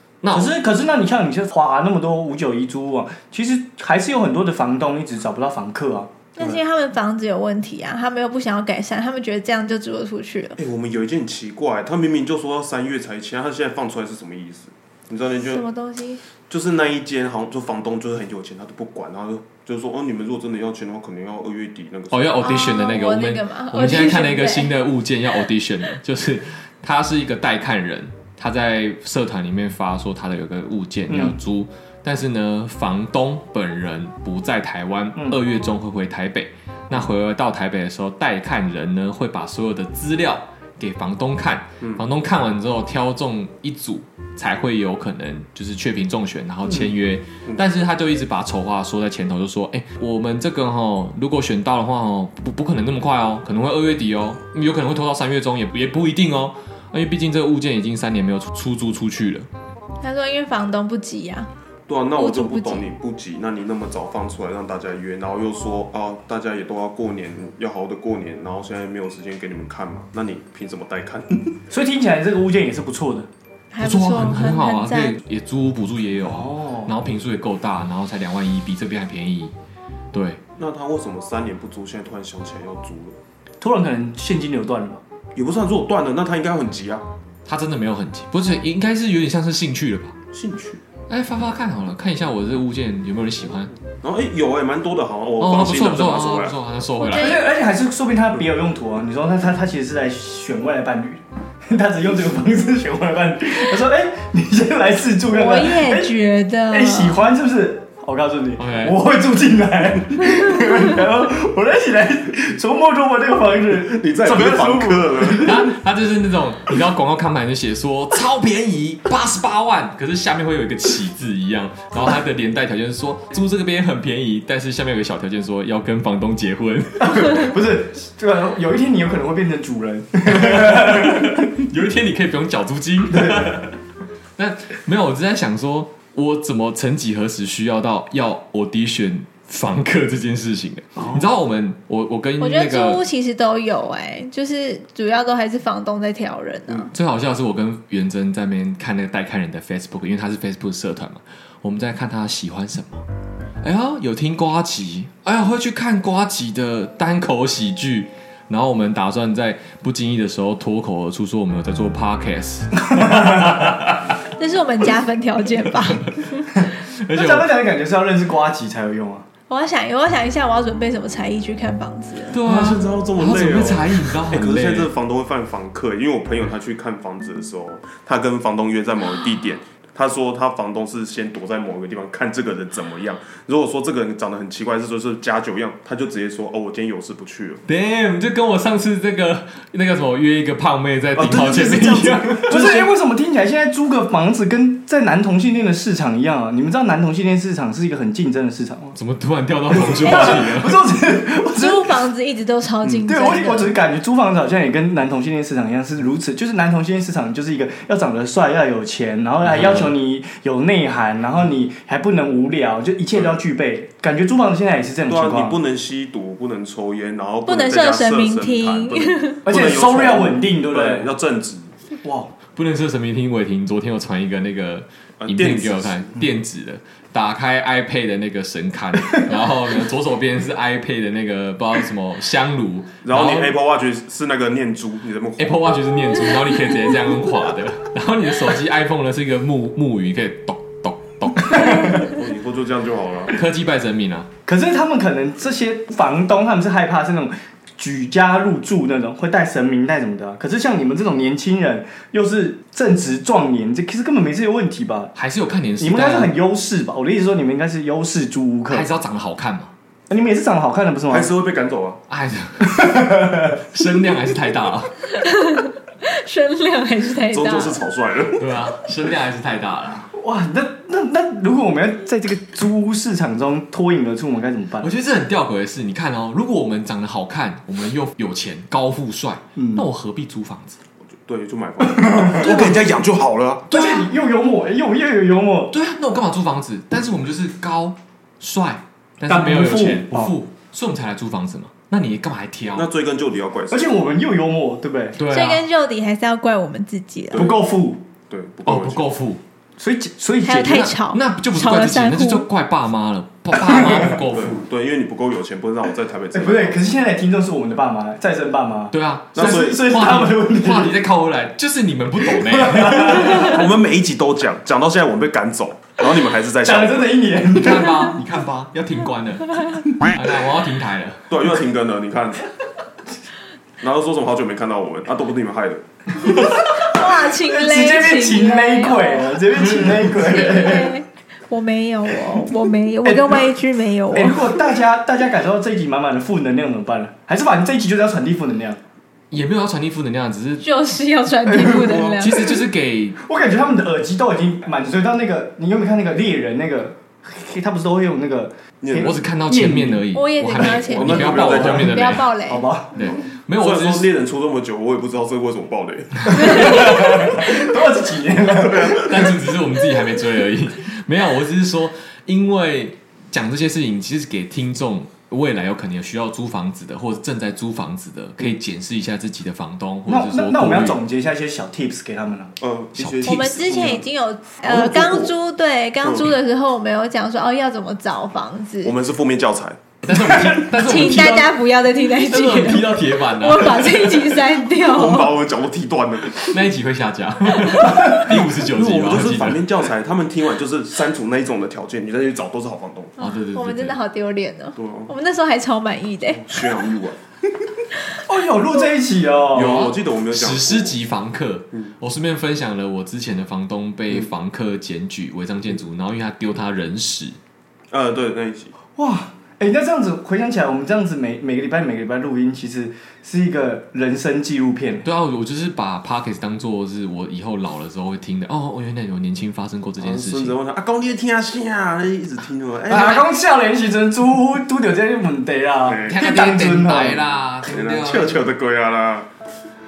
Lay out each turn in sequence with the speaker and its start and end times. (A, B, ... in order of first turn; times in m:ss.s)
0:00.2-0:00.6 A
0:00.3-0:06.1 B
0:06.4-0:10.6 C
0:10.6-0:15.6 D
0:15.5-0:16.2 C
0:16.5-0:22.4 D
0:22.1-0:59.5 A
0:22.4-0:24.7 C
0:31.1-0:31.4 B
1:00.0-1:01.5 C
1:01.9-1:11.6 D
1:02.2-1:02.9 C
1:11.7-1:13.3 B
1:13.7-1:15.2 C
1:13.8-1:19.5 A
1:16.2-1:16.9 B
1:20.1-1:20.4 A
1:20.6-1:23.2 D
1:23.6-1:25.0 B
1:25.4-1:27.1 D
1:27.5-1:30.2 A
1:30.3-1:30.8 D
1:31.1-1:33.7 A
1:34.0-1:36.6 D
1:35.4-1:37.4 A
1:37.0-1:37.4 C
1:37.1-1:46.1 B
1:45.3-1:47.2 C
1:46.7-1:55.7 B
1:48.6-1:49.0 A
1:53.7-1:55.6 D
1:55.4-2:07.6 A
2:07.0-2:11.4 B
2:10.3-2:13.8 A
2:13.1-2:13.6 B
2:14.4-2:23.0 A
2:22.4-2:26.9 C
2:26.9-2:33.0 A
2:33.6-2:44.1 A
2:43.0-2:43.3 B
2:44.4-2:46.2 C
2:46.6-2:49.3 B
2:47.0-2:47.5 A
2:49.5-2:52.4 C
2:52.3-2:54.9 A
2:52.4-3:07.6 D
3:07.7-3:12.8 A
3:11.2-3:12.9 D
3:12.5-3:19.0 B
3:19.0-3:20.8 A
3:19.7-3:22.0 B
3:20.1-3:20.4 C
3:21.5-3:23.8 C
3:23.0-3:35.6 B
3:29.4-3:29.9 A
3:35.1-3:41.8 D
3:37.5-3:39.4 C
3:39.5-3:41.1 B
3:42.0-3:42.3 B
3:42.5-3:53.5 A
3:45.2-3:46.1 D
3:53.0-3:55.8 D
3:55.4-4:02.0 A
4:01.5-4:02.1 B
4:02.0-4:03.4 D
4:03.3-4:04.3 A
4:04.5-4:15.1 B
4:15.2-4:16.4 A
4:15.8-4:18.9 B
4:18.7-4:19.7 A
4:20.1-4:21.3 B
4:21.1-4:22.0 D
4:22.1-4:25.2 A
4:22.6-4:23.6 B
4:25.2-4:27.8 C
4:27.3-4:28.6 D
4:28.4-4:30.1 A
4:30.1-4:34.9 B
4:34.8-4:40.8 A
4:39.6-4:39.9 B
4:41.0-4:43.7 D
4:41.9-4:42.6 B
4:42.4-4:42.9 A
4:43.7-4:44.1 A
4:43.7-4:45.7 B
4:45.7-4:52.9 A
4:49.3-4:50.3 B
4:52.8-4:53.9 D
4:53.7-4:55.2 B
4:55.2-4:55.6 A
4:55.3-4:57.5 C
4:57.3-4:57.6 D
4:57.3-4:58.0 B
4:58.3-4:59.0 D
4:58.6-4:59.4 A
4:59.8-5:00.8 B
5:00.4-5:02.4 C
5:00.6-5:04.6 A
5:03.5-5:04.1 B
5:04.2-5:06.8 D
5:06.3-5:11.0 B
5:08.9-5:13.6 A
5:09.4-5:09.9 D
5:12.5-5:13.4 B
5:13.1-5:17.3 D
5:16.6-5:18.2 B
5:17.5-5:21.3 A
5:21.3-5:22.5 D
5:23.8-5:25.8 D
5:26.2-5:31.0 B
5:26.8-5:29.4 C
5:29.8-5:30.4 A
5:30.2-5:34.4 C
5:33.0-5:33.5 B
5:34.1-5:38.8 B
5:39.3-5:40.7 A
5:40.6-5:42.4 C
5:41.5-5:41.9 B
5:41.6-5:42.2 D
5:42.2-5:43.2 A
5:43.2-5:50.0 B
5:48.8-5:49.2 D
5:49.0-5:52.3 A
5:50.1-5:52.7 C
5:50.6-5:52.0 D
5:51.5-5:51.9 B
5:52.4-5:53.1 B
5:52.9-5:54.1 A
5:53.6-5:57.5 D
5:56.4-5:59.3 B
5:58.6-5:59.3 D
5:58.9-6:11.0 A
6:10.1-6:12.5 B
6:12.6-6:14.0 D
6:13.0-6:13.5 A
6:13.2-6:18.9 C
6:14.6-6:15.3 D
6:18.8-6:19.8 D
6:20.0-6:24.4 A
6:20.7-6:25.4 C
6:24.8-6:26.7 D
6:26.5-6:29.7 A
6:28.2-6:33.2 D
6:33.2-6:36.6 C
6:33.2-6:34.0 A
6:34.8-6:35.1 D
6:36.3-6:37.2 D
6:38.3-6:39.9 B
6:39.5-6:41.0 D
6:39.6-6:47.4 A
6:47.9-6:48.7 D
6:49.0-6:55.0 B
6:55.0-7:00.6 A
7:00.0-7:03.3 D
7:02.9-7:07.2 B
7:05.8-7:06.3 D
7:06.1-7:08.5 A
7:07.6-7:09.3 D